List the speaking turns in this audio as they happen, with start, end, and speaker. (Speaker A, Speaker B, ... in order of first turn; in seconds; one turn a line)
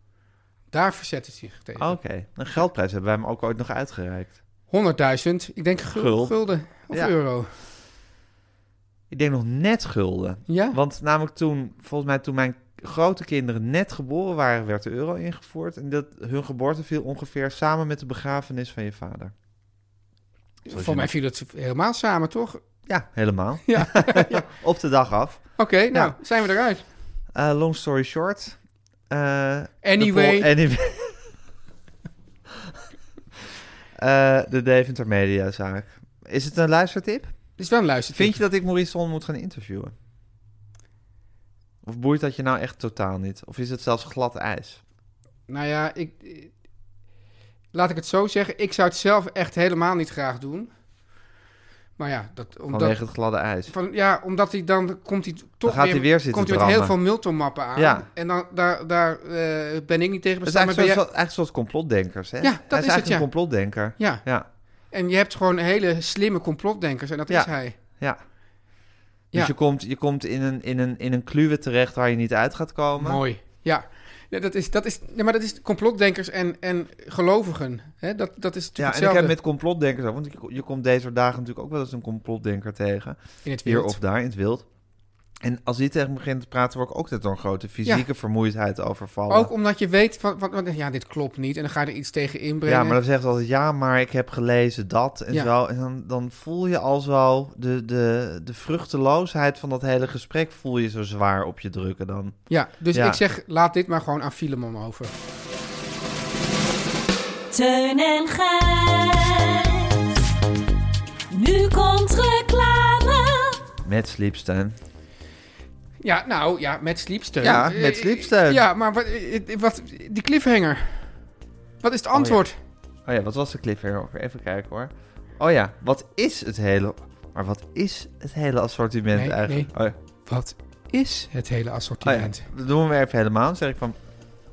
Speaker A: 0.7-2.0
Speaker B: 1.8-4.3
Speaker A: 4.7-7.5
Speaker B: 5.9-7.1
Speaker B: 9.1-19.3
Speaker A: 10.5-10.8
Speaker A: 20.7-22.6
Speaker B: 20.7-21.1
Speaker B: 22.9-26.1
Speaker A: 23.7-24.4
Speaker A: 25.6-26.8
Speaker B: 27.3-28.6
Speaker B: 29.1-31.2
Speaker A: 29.8-30.5
Speaker B: 34.0-37.3
Speaker A: 37.6-38.4
Speaker B: 38.1-39.9
Speaker B: 41.8-44.8
Speaker A: 45.5-46.5
Speaker A: 47.7-50.7
Speaker A: 52.0-53.0
Speaker B: 52.7-53.7
Speaker A: 53.7-61.0
Speaker B: 55.6-57.0
Speaker B: 57.7-58.0
Speaker B: 60.4-64.5
Speaker A: 62.4-63.3
Speaker A: 64.0-64.2
Speaker A: 64.9-67.8
Speaker B: 67.3-68.2
Speaker B: 69.3-73.2
Speaker A: 73.0-79.3
Speaker B: 78.8-84.7
Speaker A: 83.4-84.0
Speaker B: 85.4-89.5
Speaker A: 89.3-93.0
Speaker B: 92.7-102.4
Speaker A: 102.5-105.1
Speaker B: 102.9-103.2
Speaker C: 107.5-109.9
Speaker C: 111.3-113.5
Speaker B: 113.8-114.8
Speaker A: 116.0-121.0
Speaker B: 117.4-118.6
Speaker A: 121.8-122.5
Speaker B: 122.1-122.4
Speaker B: 123.0-129.9
Speaker A: 129.1-129.7
Speaker A: 130.2-132.4
Speaker B: 132.0-134.0